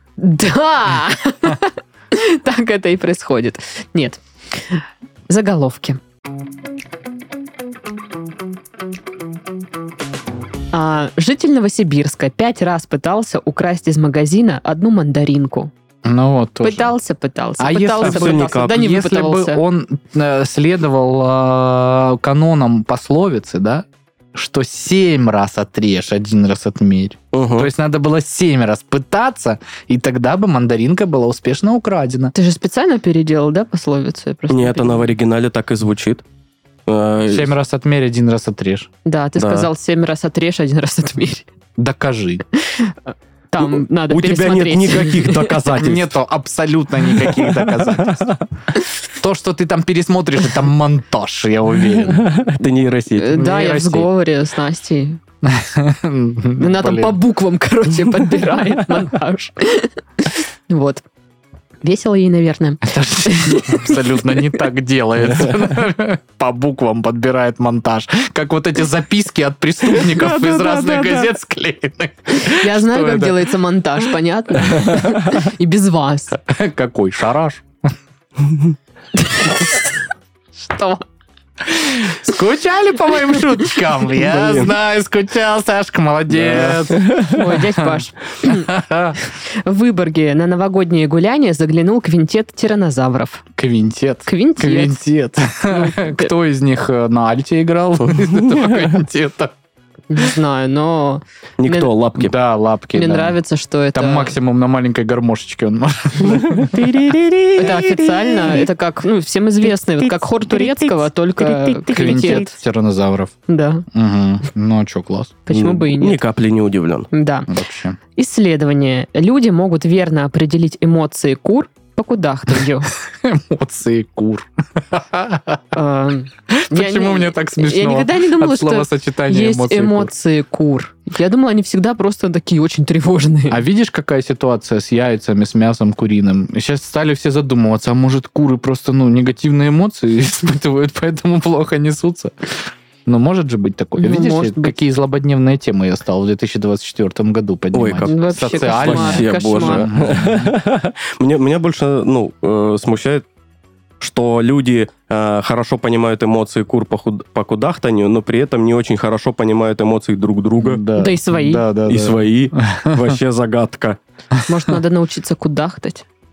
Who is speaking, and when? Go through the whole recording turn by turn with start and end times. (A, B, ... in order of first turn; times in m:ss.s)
0:00.2-0:06.0 A
0:10.7-0:15.7 A
0:16.0-0:16.9 B
0:16.6-0:19.6 A
0:17.6-0:32.3 B
0:18.0-0:18.8 C
0:27.3-0:27.7 C
0:32.3-0:35.1 A
0:34.5-0:36.2 C
0:36.9-0:37.5 C
0:37.3-0:38.9 B
0:39.1-0:41.5 A
0:39.4-0:39.7 C
0:41.8-0:42.4 B
0:42.6-0:43.0 A
0:43.5-0:45.5 A
0:43.6-0:46.2 C
0:45.7-0:48.4 B
0:47.2-0:48.4 C
0:49.2-0:52.2 B
0:52.0-0:53.4 C
0:53.2-0:55.2 A
0:53.3-0:54.1 B
0:55.4-0:57.2 B
0:56.6-1:01.0 A
1:01.8-1:04.0 A
1:02.9-1:13.5 B
1:10.0-1:11.3 C
1:12.3-1:16.4 A
1:16.5-1:17.6 B
1:19.2-1:20.0 A
1:20.6-1:21.1 A
1:21.7-1:27.9 B
1:24.2-1:24.7 C
1:26.3-1:27.4 C
1:27.2-1:33.4 A
1:28.4-1:29.2 B
1:33.6-1:39.5 B
1:34.3-1:35.0 A
1:35.7-1:36.3 A
1:38.0-1:38.7 C
1:40.1-1:41.9 A
1:41.6-1:42.4 C
1:42.2-1:43.4 B
1:42.9-1:44.4 A
1:43.9-1:46.9 B
1:46.2-1:48.6 C
1:47.6-1:52.6 A
1:50.0-1:52.5 C
1:51.8-1:53.3 B
1:53.5-1:53.8 A
1:53.9-1:55.4 B
1:55.5-1:56.2 A
1:55.5-1:57.1 C
1:57.1-1:57.5 A
1:57.5-1:58.0 B
1:58.2-2:02.9 A
2:03.1-2:05.6 B
2:05.7-2:13.6 A
2:06.5-2:10.1 B
2:13.5-2:30.5 B
2:24.0-2:24.8 A
2:27.7-2:33.2 C
2:28.0-2:29.9 A
2:34.0-2:40.8 C
2:40.6-2:43.2 B
2:41.0-2:41.7 A
2:41.9-2:44.0 C
2:44.5-2:46.0 A